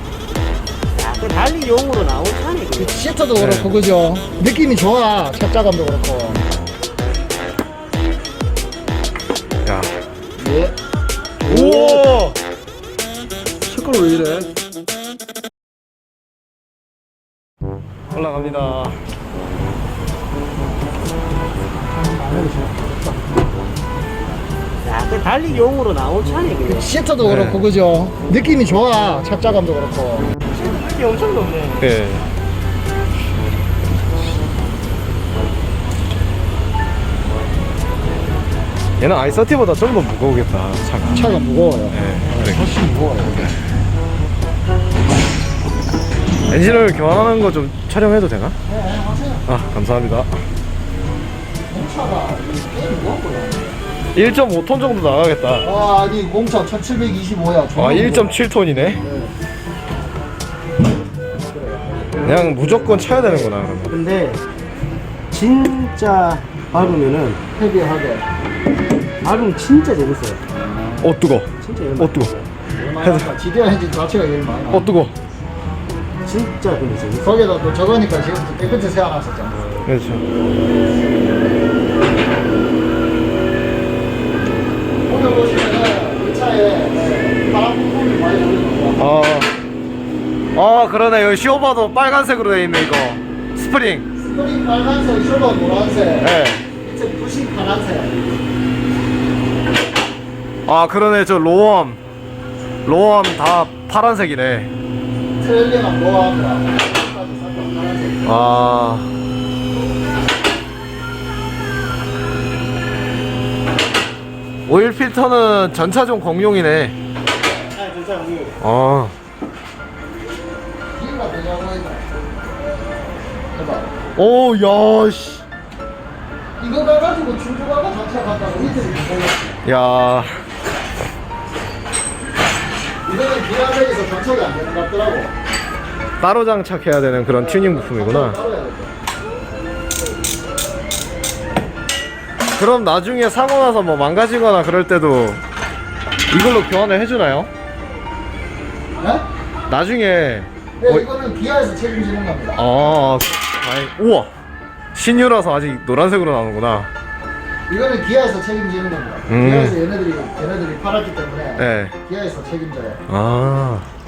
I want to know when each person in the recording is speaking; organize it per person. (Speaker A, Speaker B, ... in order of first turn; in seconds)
Speaker A: 0.9-3.0, 24.8-26.9, 30.5-31.9, 63.9-64.4, 65.3-67.4, 69.2-70.4, 71.6-72.4, 76.2-77.5, 79.5-79.9, 117.7-118.6
Speaker B: 2.7-6.4, 10.4-10.8, 11.4-12.1, 13.7-14.5, 21.8-23.2, 26.7-30.3, 41.1-43.5, 48.6-49.5, 51.7-53.8, 55.6-59.3, 61.4-63.5, 67.5-68.2, 70.5-71.2, 72.8-75.0, 77.2-79.7, 85.1-89.0, 94.2-98.2, 105.4-108.6, 121.0-122.3, 123.5-124.0, 126.6-129.6, 133.1-135.3, 137.3-138.9, 149.0-149.2, 150.8-152.6, 157.7-163.0
Speaker C: 3.4-3.8, 9.6-9.9, 11.4-12.4, 18.1-19.0, 27.2-27.6, 31.8-32.3, 39.0-41.3, 41.9-42.6, 43.3-43.8, 46.5-48.6, 49.5-50.3, 54.1-55.7, 57.7-59.0, 62.2-63.9, 71.0-72.3, 73.0-73.3, 74.7-75.1, 79.8-80.2, 89.0-89.5, 90.5-94.1, 96.2-96.7, 100.7-102.0, 102.8-104.7, 108.2-109.1, 114.7-116.9, 118.6-119.1, 124.2-125.4, 129.6-130.4, 136.2-138.4, 142.6-145.4, 146.3-147.5, 149.7-151.1, 152.5-154.3, 154.9-156.9, 159.3-159.8, 161.6-162.0, 163.1-163.9